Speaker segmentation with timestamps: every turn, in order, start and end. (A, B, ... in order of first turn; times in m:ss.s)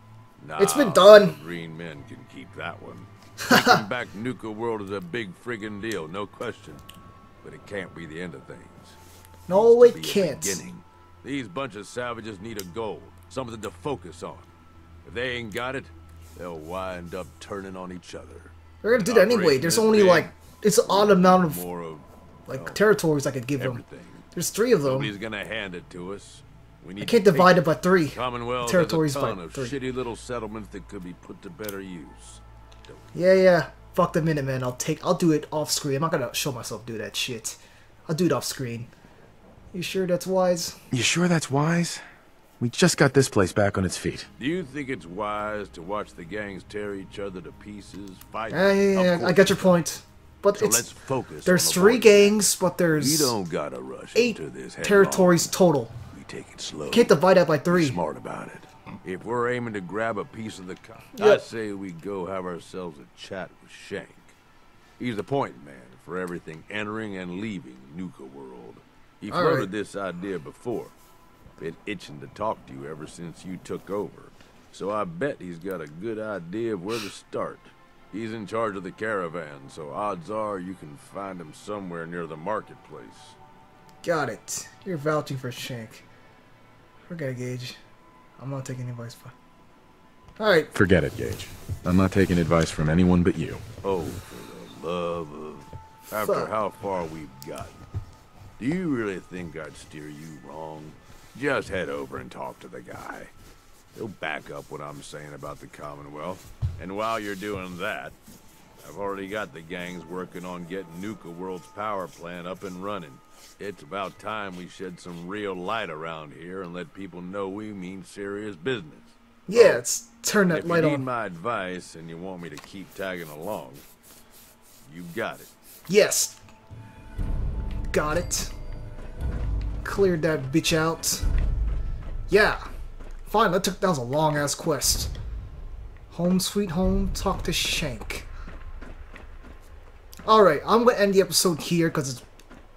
0:00.4-0:06.8 A
0:00.6-0:01.4 B
0:03.5-0:03.8 B
0:07.4-0:09.0 A
0:09.5-0:10.6 B
0:09.5-0:14.5 A
0:15.0-0:22.8 A
0:18.8-0:21.6 B
0:22.5-0:23.8 B
0:23.6-0:24.3 A
0:24.3-0:25.1 B
0:24.8-0:33.1 A
0:27.0-0:29.8 B
0:33.1-0:38.9 B
0:39.7-0:40.8 B
0:40.9-0:42.0 C
0:42.6-0:44.3 C
0:44.4-0:49.8 A
0:48.5-0:50.9 B
0:50.5-0:55.5 A
0:51.4-0:53.4 B
0:54.1-0:55.9 B
0:56.1-1:04.3 A
0:56.9-0:58.0 B
1:01.2-1:01.4 B
1:05.0-1:10.9 A
1:09.3-1:09.7 B
1:11.6-1:23.4 A
1:24.0-1:26.0 B
1:27.1-1:27.8 B
1:28.4-1:29.3 B
1:30.4-1:30.7 B
1:30.7-1:33.6 C
1:33.8-1:37.8 A
1:36.2-1:36.5 B
1:38.6-1:43.3 A
1:43.9-1:48.2 A
1:48.8-1:59.8 A
1:59.5-2:01.0 B
2:00.5-2:03.8 A
2:04.9-2:05.5 A
2:05.9-2:06.4 B
2:07.9-2:08.5 B
2:09.8-2:11.2 B
2:12.3-2:12.6 B
2:13.3-2:15.1 B
2:16.1-2:18.3 B
2:20.2-2:22.2 B